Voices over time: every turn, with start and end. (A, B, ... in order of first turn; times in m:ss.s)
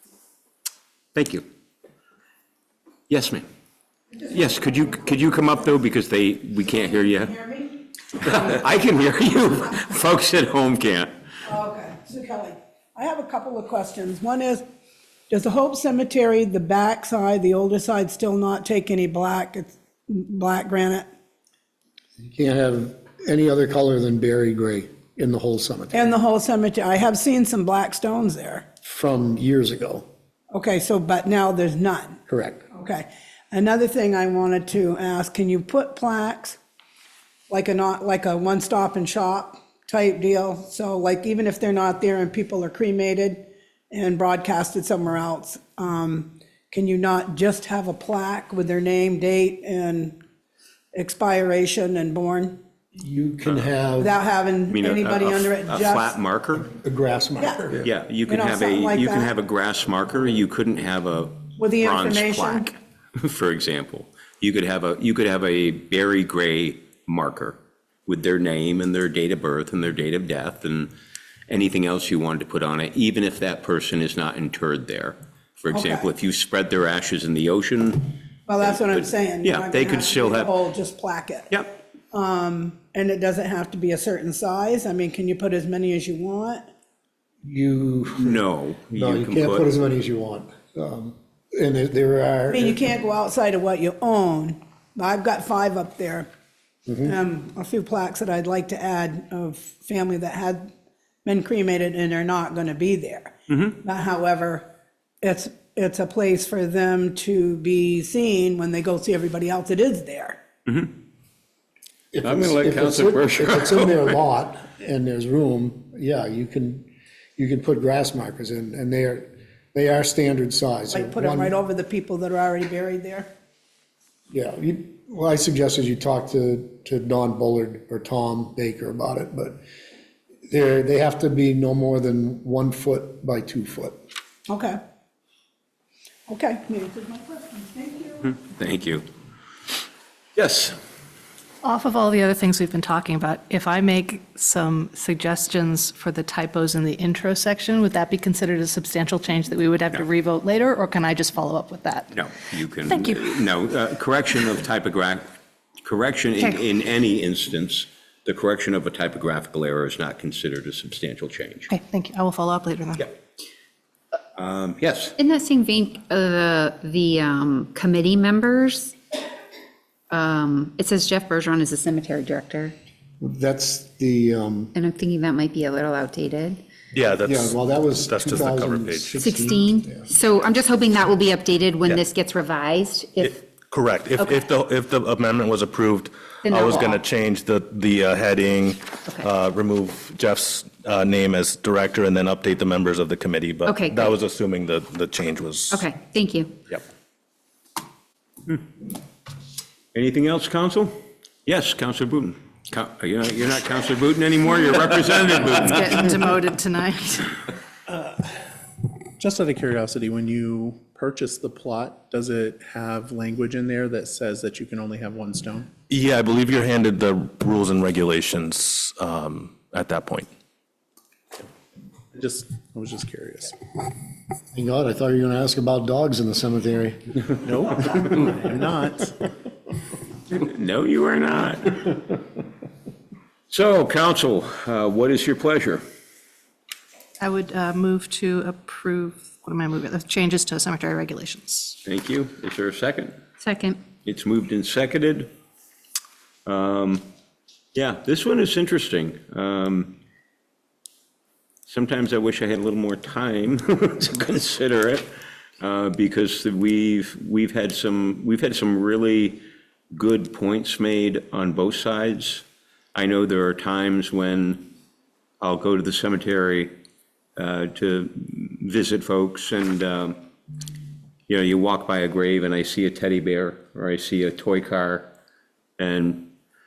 0:01.2-0:01.4 A
0:03.1-0:03.4 A
0:04.3-0:07.4 A
0:07.2-0:07.6 B
0:08.2-0:11.1 A
0:11.4-0:14.6 B
0:15.3-0:21.1 B
0:22.2-0:26.1 C
0:25.9-0:28.7 B
0:28.8-0:30.1 C
0:30.5-0:32.2 B
0:32.3-0:32.6 C
0:32.7-0:36.6 B
0:37.5-0:50.2 B
0:50.9-0:52.6 B
0:53.0-0:54.2 C
0:53.4-0:53.7 A
0:54.0-0:56.2 B
0:54.7-0:56.7 A
0:56.7-0:57.9 C
0:57.4-0:57.7 B
0:57.8-1:10.9 A
0:58.3-0:59.3 B
1:01.6-1:02.7 B
1:11.5-1:20.6 A
1:15.7-1:16.1 B
1:18.5-1:26.6 B
1:27.4-1:32.8 C
1:28.2-1:29.7 A
1:32.5-1:36.3 B
1:36.9-1:37.2 C
1:37.0-1:40.7 B
1:41.2-1:44.7 B
1:43.5-1:43.8 A
1:45.2-1:50.4 B
1:50.7-1:50.9 A
1:52.1-2:01.6 C
1:52.2-1:54.2 A
2:00.9-2:03.3 B
2:04.3-2:09.6 C
2:10.5-2:14.0 C
2:14.5-2:14.8 B
2:16.3-2:18.4 B
2:18.3-2:19.0 A
2:20.4-2:20.8 A
2:21.6-2:32.2 D
2:32.1-2:35.3 A
2:32.9-2:33.3 D
2:35.8-2:41.7 A
2:41.7-2:43.1 D
2:44.4-2:45.2 A
2:45.2-2:49.0 E
2:50.1-2:52.8 E
2:53.2-2:54.7 C
2:54.7-2:56.6 E
2:56.9-2:59.2 F
2:57.2-3:00.1 C
2:59.2-3:03.4 E
3:03.2-3:15.8 F
3:06.4-3:07.0 E
3:13.7-3:14.1 E
3:15.7-3:16.5 E
3:19.9-3:26.3 A
3:25.4-3:27.3 D
3:27.9-3:28.2 G
3:29.2-3:35.7 G
3:35.9-3:40.3 F
3:42.1-3:43.6 G
3:44.5-3:47.3 C
3:47.4-3:49.2 G
3:50.3-3:52.2 A
3:53.5-3:55.8 A
3:57.2-4:01.8 D
4:01.8-4:03.2 A
4:03.4-4:03.8 E
4:04.0-4:05.3 A
4:06.5-4:07.0 A
4:07.8-4:10.0 A
4:11.7-4:15.1 A
4:15.6-4:24.7 A
4:25.4-4:26.8 A
4:27.4-4:30.2 A
4:31.3-4:35.1 A
4:35.8-4:36.3 A